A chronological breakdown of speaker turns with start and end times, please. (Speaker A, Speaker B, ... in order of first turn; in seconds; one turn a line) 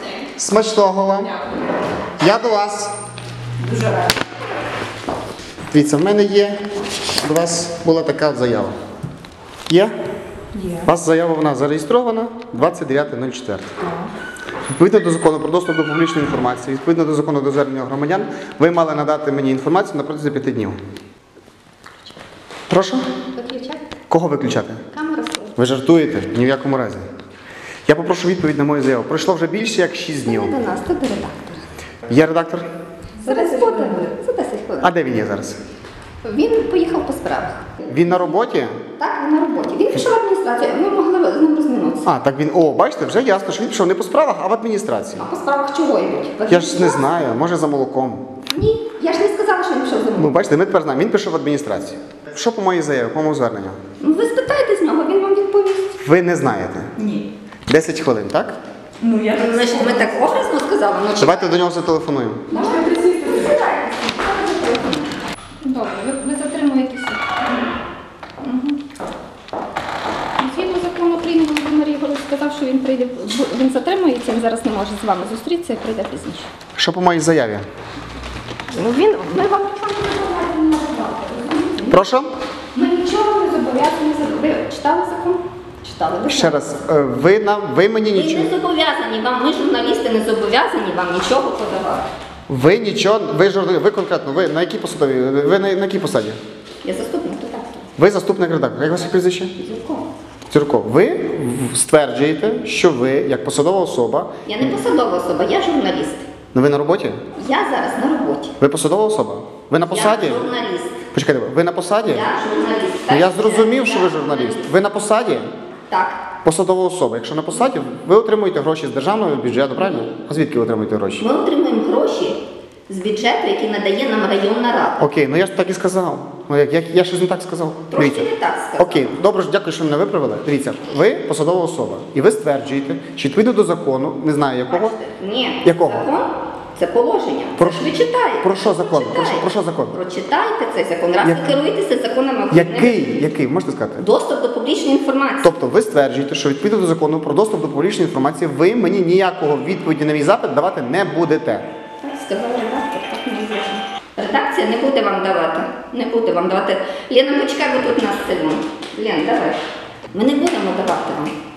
Speaker A: 0.4-1.4
Speaker A: 2.2-2.9
Speaker B: 3.7-4.0
Speaker A: 5.7-6.6
Speaker A: 7.2-8.7
Speaker A: 10.7-13.7
Speaker A: 14.7-20.8
Speaker A: 22.7-23.0
Speaker C: 23.4-23.8
Speaker A: 24.1-24.9
Speaker C: 24.9-25.5
Speaker A: 25.6-27.0
Speaker A: 27.9-30.5
Speaker C: 30.2-31.6
Speaker A: 32.1-32.7
Speaker B: 33.2-34.1
Speaker C: 33.2-34.9
Speaker A: 34.8-35.6
Speaker C: 36.2-38.3
Speaker A: 37.9-38.7
Speaker C: 39.0-42.1
Speaker A: 42.0-45.2
Speaker C: 45.1-47.0
Speaker A: 46.5-48.2
Speaker C: 48.5-50.4
Speaker A: 50.2-53.8
Speaker C: 54.0-55.9
Speaker A: 56.0-56.9
Speaker C: 57.0-57.2
Speaker A: 57.7-58.6
Speaker B: 59.0-60.0
Speaker C: 59.2-61.5
Speaker A: 61.2-62.5
Speaker C: 62.5-67.5
Speaker B: 62.6-63.3
Speaker C: 68.4-68.8
Speaker C: 70.4-76.5
Speaker A: 76.8-77.6
Speaker C: 78.7-82.1
Speaker A: 81.9-82.3
Speaker C: 82.7-86.6
Speaker A: 86.3-88.5
Speaker C: 88.1-92.0
Speaker A: 92.5-96.4
Speaker C: 96.8-97.8
Speaker A: 98.0-99.5
Speaker C: 99.6-100.0
Speaker A: 100.5-104.3
Speaker C: 104.5-106.2
Speaker A: 106.5-107.2
Speaker C: 107.3-108.5
Speaker A: 108.6-110.5
Speaker C: 109.9-111.0
Speaker A: 111.1-112.3
Speaker C: 112.0-114.7
Speaker A: 113.1-115.5
Speaker C: 115.9-116.2
Speaker A: 116.4-121.2
Speaker C: 119.8-120.1
Speaker C: 121.2-125.0
Speaker A: 125.0-134.9
Speaker C: 127.9-129.0
Speaker C: 134.7-143.2
Speaker A: 135.6-136.1
Speaker A: 137.6-137.9
Speaker A: 138.4-139.9
Speaker A: 141.2-141.5
Speaker A: 142.5-144.1
Speaker C: 144.0-145.5
Speaker A: 145.4-151.7
Speaker C: 152.0-159.6
Speaker C: 160.1-161.3